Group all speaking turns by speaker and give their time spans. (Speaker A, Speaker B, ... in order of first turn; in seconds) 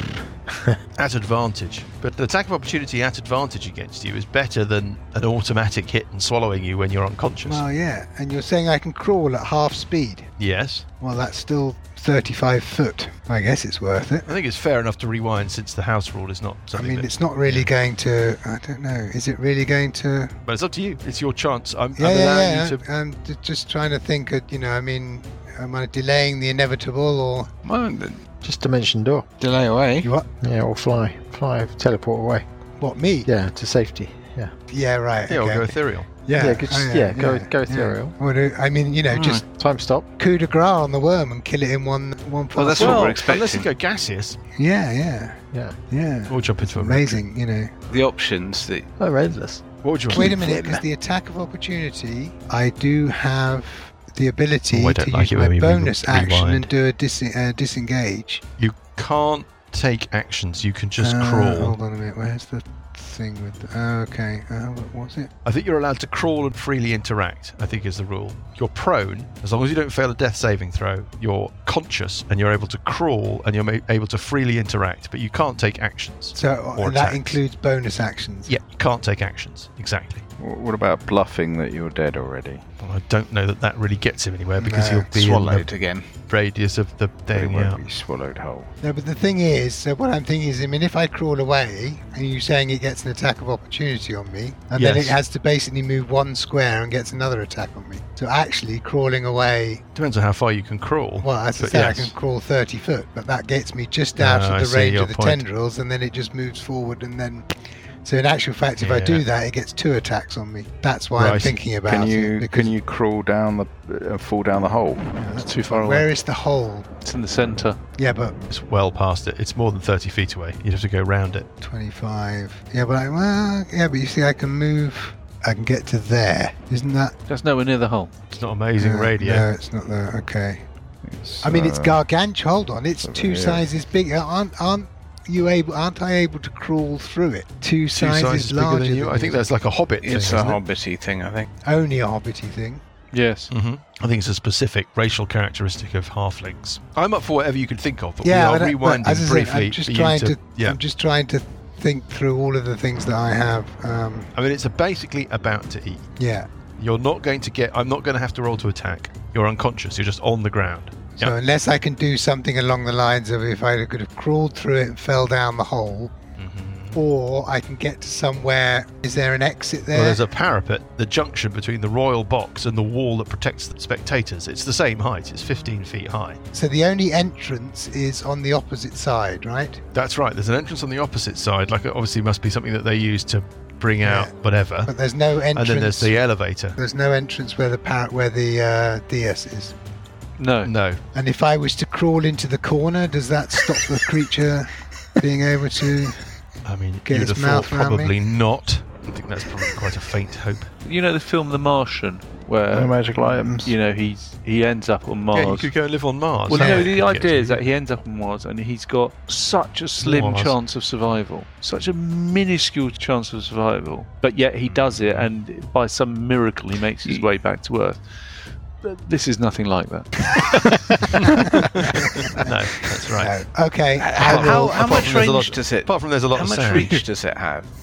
Speaker A: 0.9-7.6, 10.4-10.8, 14.2-17.7, 20.4-22.8, 35.3-36.1, 42.8-44.4, 46.3-47.2, 49.8-50.4, 54.7-56.7, 58.6-61.8, 65.4-77.4, 78.5-80.2, 82.8-85.7, 86.3-87.8, 94.7-95.2, 99.9-102.1, 104.2-105.4, 108.8-109.2, 111.2-111.7, 118.5-121.5, 128.3-129.4, 137.9-140.6, 143.5-150.8, 154.3-156.1, 156.8-161.3, 166.4-167.0, 169.9-176.4, 179.9-184.9, 185.5-186.8, 190.6-191.0, 196.6-200.7, 205.3-207.6, 210.0-210.6, 214.9-215.3, 221.5-223.4, 224.2-227.0
Speaker B: 7.4-10.3, 11.0-14.3, 16.7-20.3, 21.9-27.5, 30.0-30.3, 32.8-33.3, 34.7-39.4, 40.2-43.0, 44.6-47.7, 50.1-58.4, 61.0-65.3, 76.3-78.5, 84.6-85.1, 88.8-99.8, 101.2-107.5, 108.0-112.7, 115.2-116.9, 118.0-118.3, 121.6-127.1, 128.8-130.6, 131.4-139.4, 141.6-142.8, 148.2-154.3, 156.2-156.5, 161.2-166.1, 166.9-170.2, 176.5-179.8, 184.0-186.2, 186.8-189.7, 191.1-196.3, 197.0-198.1, 206.5-206.9, 223.2-224.8
Speaker C: 27.6-28.3, 29.4-30.1, 39.1-39.4, 42.5-43.7, 47.9-48.9, 85.1-86.1, 140.0-141.5, 224.0-227.7
Speaker D: 28.4-29.3, 30.4-32.5, 33.2-34.5, 36.3-38.1, 39.4-40.1, 45.5-45.8, 49.0-50.8
Speaker E: 80.4-82.6, 87.3-88.7, 111.8-115.2, 131.0-132.0, 133.0-133.7, 202.7-203.7
Speaker F: 115.3-116.1, 117.0-117.8, 127.3-128.1, 143.1-143.5, 190.4-190.7, 200.8-205.9, 206.5-220.9